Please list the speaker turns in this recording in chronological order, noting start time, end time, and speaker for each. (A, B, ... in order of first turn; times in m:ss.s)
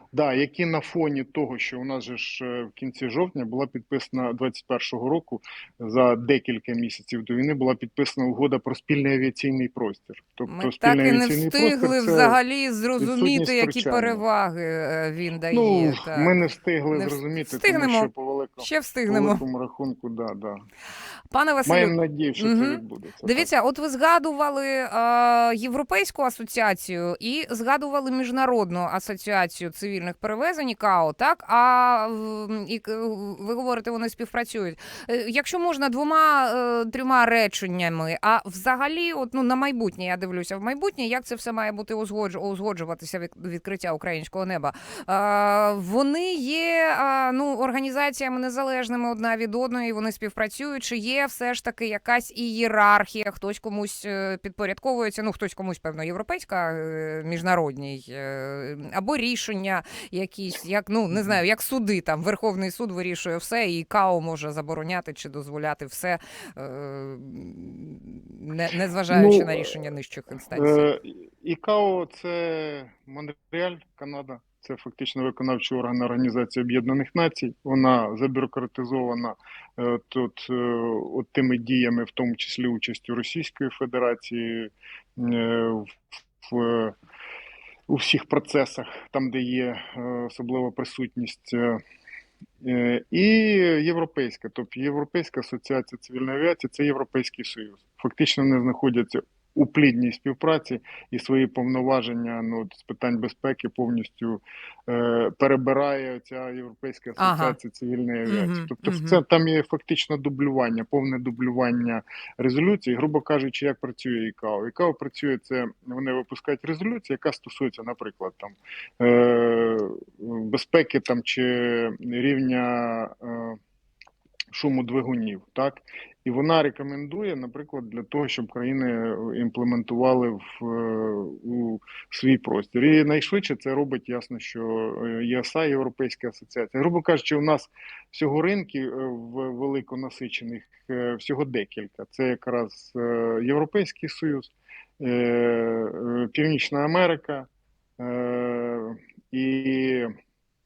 0:00.1-0:12.4 A
0:10.5-0:16.4 B
0:13.0-0:14.2 A
0:15.5-0:20.6 A
0:16.9-0:19.4 B
0:21.3-1:10.9 B
0:21.6-0:23.5 A
1:09.1-1:09.8 A
1:10.5-1:27.0 A
1:27.9-1:31.8 A
1:32.6-2:03.6 A
1:47.2-1:47.6 B
1:48.3-1:49.2 B
2:04.5-2:30.1 A